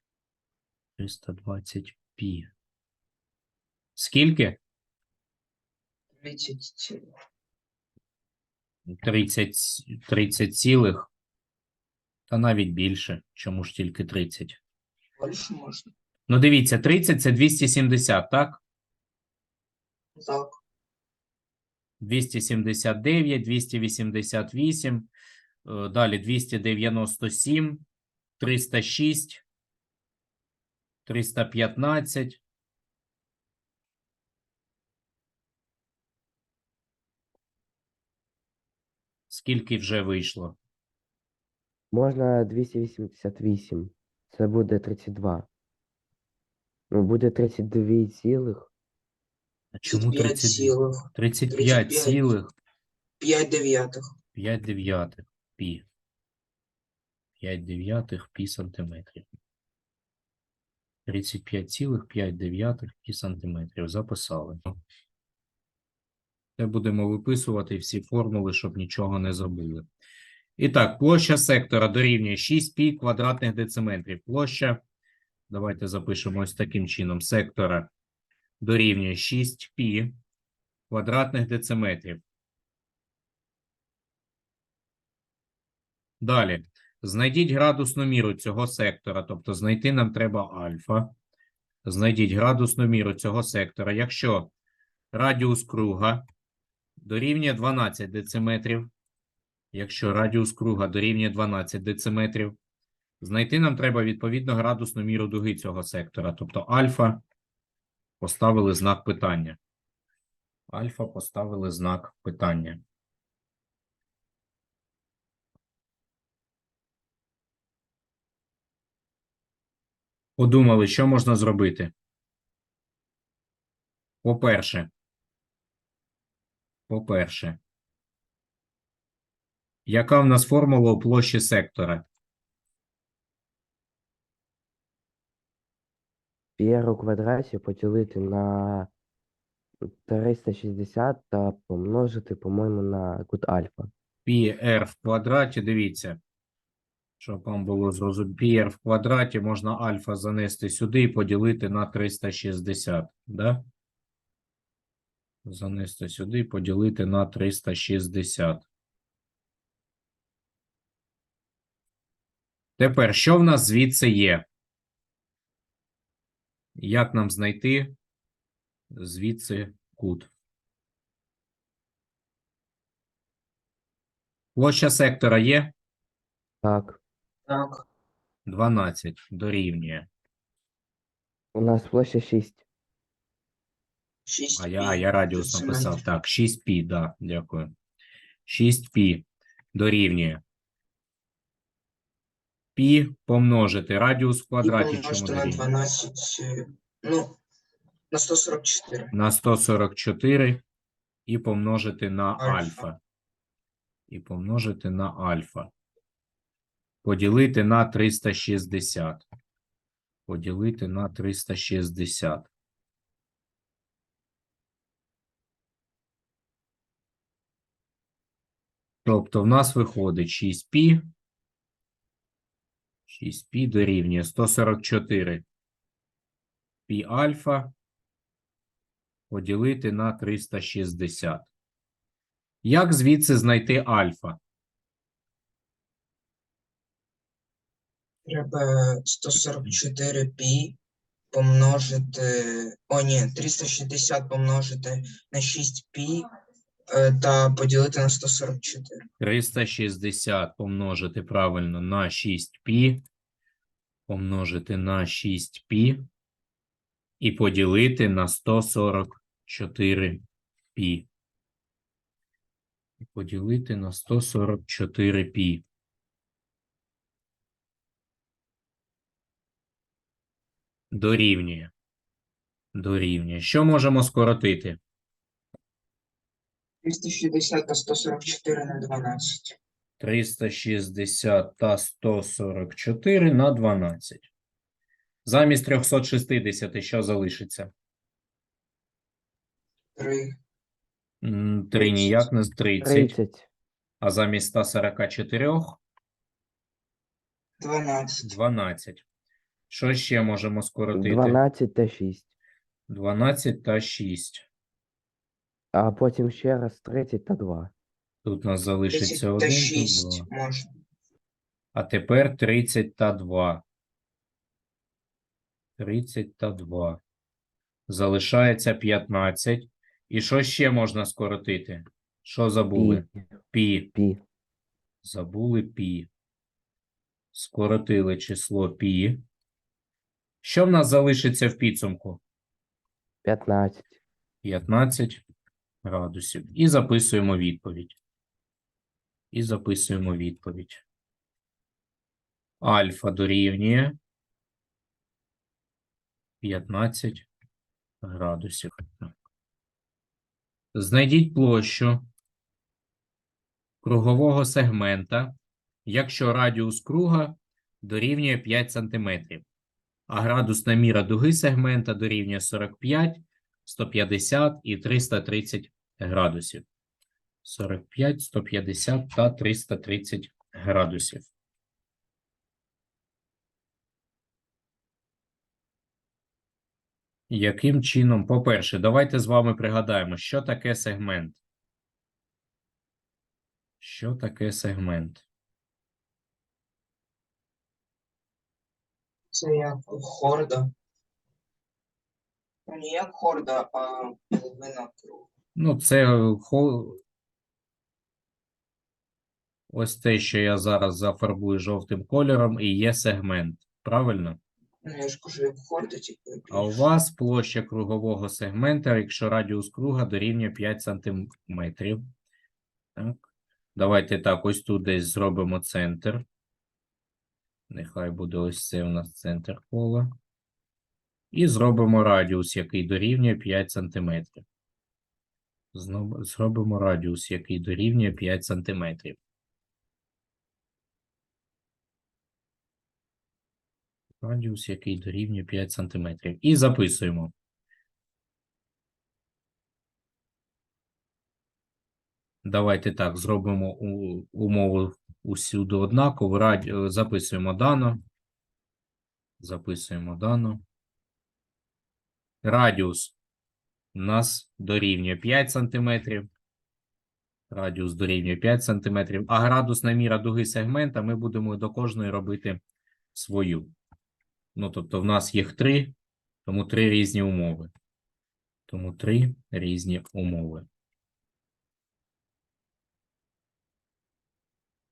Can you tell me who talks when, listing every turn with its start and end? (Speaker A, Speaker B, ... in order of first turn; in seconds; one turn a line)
Speaker A: 1.0-2.5
Speaker A: 4.0-4.6
Speaker B: 6.2-7.0
Speaker A: 8.9-11.1
Speaker A: 12.3-14.6
Speaker B: 15.2-15.9
Speaker A: 16.3-18.6
Speaker B: 20.2-20.6
Speaker A: 22.0-25.1
Speaker A: 25.6-27.9
Speaker A: 28.4-29.4
Speaker A: 31.1-32.4
Speaker A: 39.3-40.6
Speaker C: 41.9-45.5
Speaker C: 46.9-48.7
Speaker A: 49.8-52.5
Speaker B: 49.9-52.3
Speaker B: 53.2-54.1
Speaker A: 54.4-55.9
Speaker A: 57.4-59.3
Speaker A: 61.1-64.7
Speaker A: 66.6-69.9
Speaker A: 70.6-74.8
Speaker A: 75.5-77.9
Speaker A: 78.6-80.2
Speaker A: 80.9-82.2
Speaker A: 86.2-91.1
Speaker A: 91.8-94.5
Speaker A: 95.1-96.2
Speaker A: 97.0-98.9
Speaker A: 99.7-102.6
Speaker A: 103.2-107.2
Speaker A: 108.2-109.6
Speaker A: 110.7-112.8
Speaker A: 120.4-121.9
Speaker A: 124.2-124.9
Speaker A: 126.9-127.6
Speaker A: 129.9-132.1
Speaker C: 136.6-138.9
Speaker C: 139.9-143.9
Speaker A: 144.3-146.2
Speaker A: 147.2-153.6
Speaker A: 155.4-158.7
Speaker A: 162.8-164.4
Speaker A: 166.8-167.9
Speaker A: 168.9-170.3
Speaker A: 174.6-175.7
Speaker C: 176.6-177.0
Speaker B: 177.5-177.8
Speaker A: 178.5-180.1
Speaker C: 181.6-182.6
Speaker B: 184.3-186.0
Speaker A: 184.6-187.7
Speaker A: 188.5-190.4
Speaker A: 192.8-195.7
Speaker B: 194.6-197.4
Speaker B: 198.1-199.1
Speaker A: 199.1-200.6
Speaker A: 201.3-203.0
Speaker B: 202.4-202.9
Speaker A: 204.1-205.7
Speaker A: 207.0-209.2
Speaker A: 210.3-212.5
Speaker A: 219.1-221.1
Speaker A: 223.1-225.4
Speaker A: 226.9-227.7
Speaker A: 229.3-231.5
Speaker A: 232.6-234.4
Speaker B: 238.3-240.8
Speaker B: 241.3-246.2
Speaker B: 246.9-249.0
Speaker A: 249.2-253.0
Speaker A: 254.1-256.1
Speaker A: 257.2-260.2
Speaker A: 260.8-261.1
Speaker A: 263.1-265.6
Speaker A: 270.9-271.7
Speaker A: 272.8-274.8
Speaker B: 276.8-279.6
Speaker A: 280.0-284.3
Speaker A: 285.2-287.7
Speaker B: 290.0-290.3
Speaker A: 291.2-293.2
Speaker B: 291.8-292.1
Speaker C: 292.8-293.5
Speaker A: 294.0-295.8
Speaker B: 297.6-298.4
Speaker A: 298.2-299.0
Speaker A: 299.7-301.4
Speaker C: 300.9-302.3
Speaker A: 302.9-304.5
Speaker C: 305.7-307.7
Speaker A: 308.2-310.3
Speaker B: 308.9-310.7
Speaker A: 311.7-313.6
Speaker A: 315.8-317.0
Speaker A: 317.9-323.9
Speaker C: 322.8-323.3
Speaker C: 323.9-324.2
Speaker A: 325.0-326.1
Speaker A: 327.3-329.2
Speaker A: 330.4-332.2
Speaker C: 333.2-334.0
Speaker A: 334.4-335.2
Speaker A: 335.8-338.0
Speaker A: 339.3-340.8
Speaker A: 342.6-344.0
Speaker A: 346.4-347.3
Speaker A: 348.0-349.1
Speaker A: 350.7-352.1
Speaker A: 353.8-359.4
Speaker A: 360.1-366.6
Speaker A: 367.4-371.3
Speaker A: 377.3-381.4
Speaker A: 383.8-385.2
Speaker B: 389.3-390.7
Speaker B: 392.7-395.3
Speaker A: 395.6-397.0
Speaker A: 399.7-404.4
Speaker B: 404.8-406.9
Speaker A: 406.5-412.1
Speaker A: 413.0-413.2
Speaker A: 413.8-416.3
Speaker A: 417.7-420.1
Speaker A: 421.3-424.4
Speaker A: 425.7-429.2
Speaker A: 434.2-437.3
Speaker A: 442.4-448.0
Speaker A: 449.4-450.6
Speaker A: 452.4-453.1
Speaker A: 453.9-456.3
Speaker A: 457.5-462.6
Speaker A: 463.1-463.7
Speaker A: 464.6-467.7
Speaker A: 468.7-470.7